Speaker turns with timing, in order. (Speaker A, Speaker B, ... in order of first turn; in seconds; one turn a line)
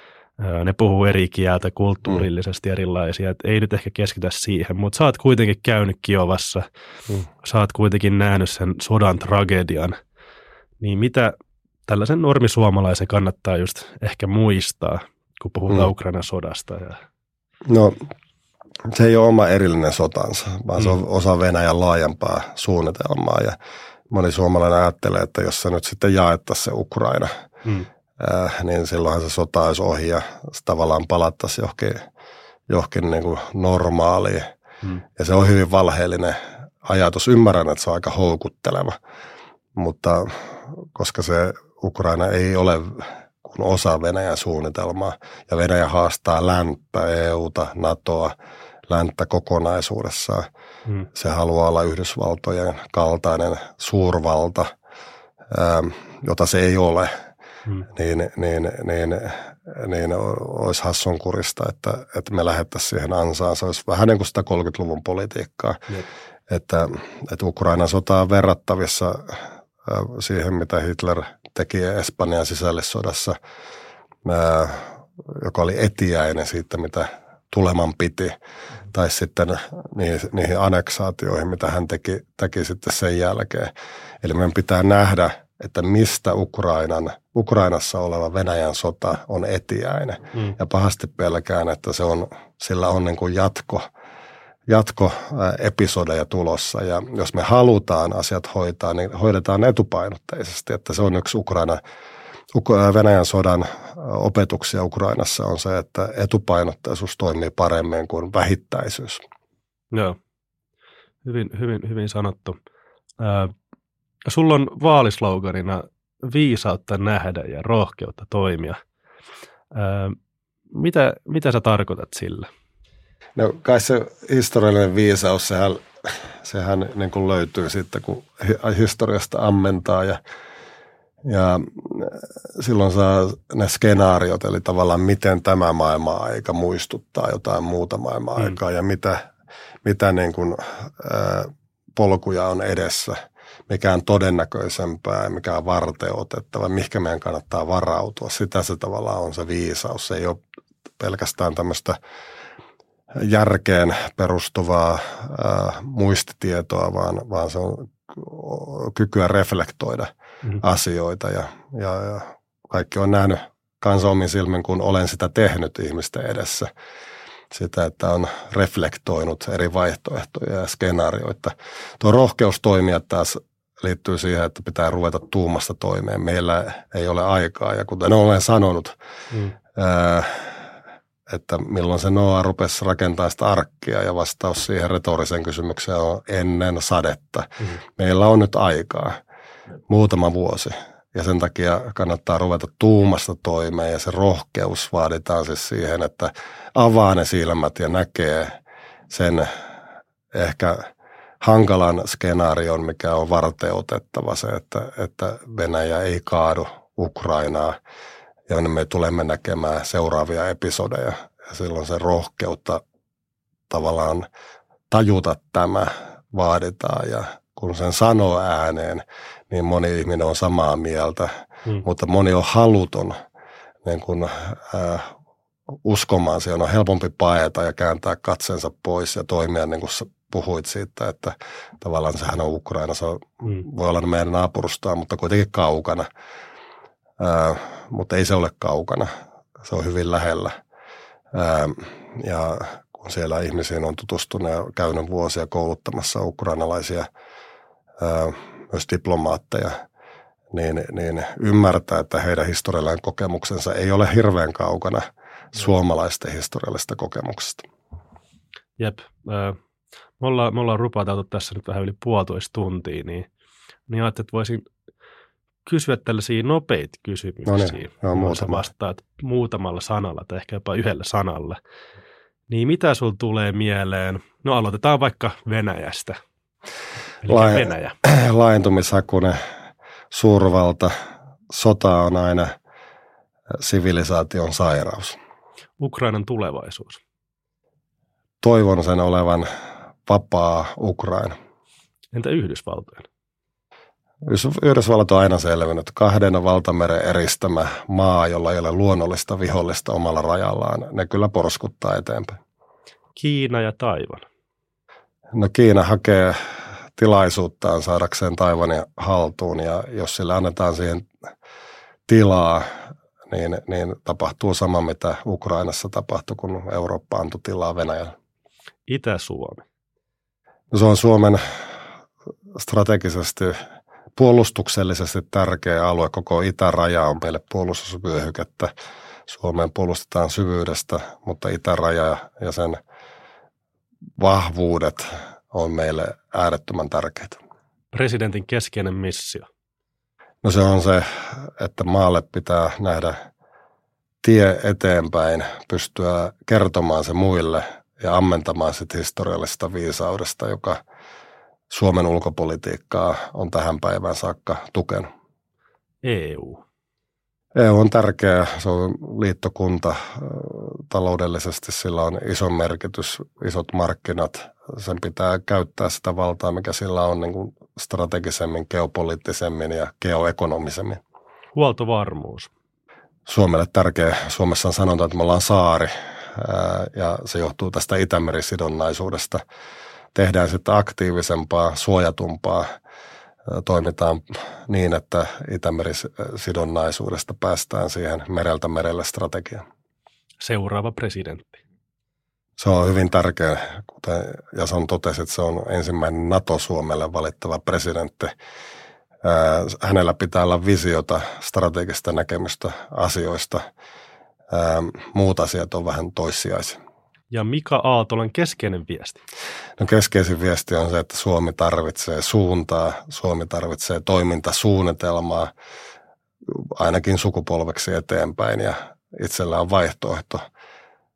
Speaker A: 0.4-6.7
Speaker A: 7.4-10.0
Speaker A: 10.8-11.3
Speaker A: 11.9-17.0
Speaker B: 17.6-18.1
Speaker B: 18.9-23.6
Speaker B: 24.1-27.3
Speaker B: 28.2-32.0
Speaker B: 32.7-34.5
Speaker B: 35.2-39.0
Speaker B: 39.8-48.3
Speaker B: 48.9-50.5
Speaker B: 51.1-54.7
Speaker B: 55.5-57.1
Speaker B: 57.9-65.9
Speaker B: 66.5-73.4
Speaker B: 74.2-78.3
Speaker B: 78.9-83.7
Speaker B: 84.2-93.9
Speaker B: 94.7-101.8
Speaker B: 102.5-109.2
Speaker A: 109.9-110.2
Speaker A: 111.2-112.6
Speaker A: 113.2-113.5
Speaker A: 114.2-118.8
Speaker A: 119.7-120.2
Speaker A: 120.7-122.5
Speaker B: 123.4-130.2
Speaker B: 131.2-139.2
Speaker B: 139.8-143.2
Speaker B: 143.7-150.4
Speaker B: 151.0-152.0
Speaker B: 153.2-160.1
Speaker B: 160.6-166.7
Speaker B: 167.5-178.9
Speaker B: 179.8-180.7
Speaker B: 181.3-189.2
Speaker B: 189.9-198.6
Speaker B: 199.1-199.7
Speaker B: 200.3-200.9
Speaker B: 201.4-207.8
Speaker B: 208.5-212.8
Speaker B: 213.7-214.3
Speaker B: 214.9-221.3
Speaker B: 221.8-223.2
Speaker B: 223.8-225.1
Speaker B: 225.8-236.1
Speaker B: 237.2-240.6
Speaker B: 241.3-247.1
Speaker B: 248.0-249.8
Speaker B: 250.5-257.6
Speaker A: 258.8-259.6
Speaker A: 260.2-263.3
Speaker A: 263.9-264.7
Speaker A: 265.7-271.6
Speaker B: 267.5-268.6
Speaker A: 272.5-276.2
Speaker A: 277.2-278.0
Speaker B: 277.3-279.4
Speaker B: 280.1-280.9
Speaker B: 281.5-282.5
Speaker B: 283.5-285.2
Speaker A: 285.8-287.0
Speaker B: 288.4-289.5
Speaker B: 290.1-291.4
Speaker A: 292.1-293.1
Speaker B: 294.3-302.4
Speaker A: 303.2-304.2
Speaker B: 305.3-306.4
Speaker B: 307.0-311.1
Speaker B: 312.1-312.7
Speaker B: 313.3-318.1
Speaker A: 318.9-319.6
Speaker B: 320.7-321.4
Speaker B: 322.6-323.6
Speaker B: 324.2-328.7
Speaker B: 329.3-332.8
Speaker B: 334.2-337.4
Speaker A: 337.9-339.5
Speaker B: 340.4-343.2
Speaker B: 344.2-350.8
Speaker B: 351.7-355.1
Speaker A: 356.0-356.6
Speaker B: 357.6-371.0
Speaker A: 371.6-372.5
Speaker B: 373.3-379.4
Speaker B: 380.1-382.7
Speaker B: 383.5-389.6
Speaker A: 390.4-391.6
Speaker B: 392.6-398.3
Speaker B: 399.2-403.6
Speaker B: 404.5-406.8
Speaker A: 407.3-409.2
Speaker B: 409.8-415.5
Speaker B: 416.5-420.4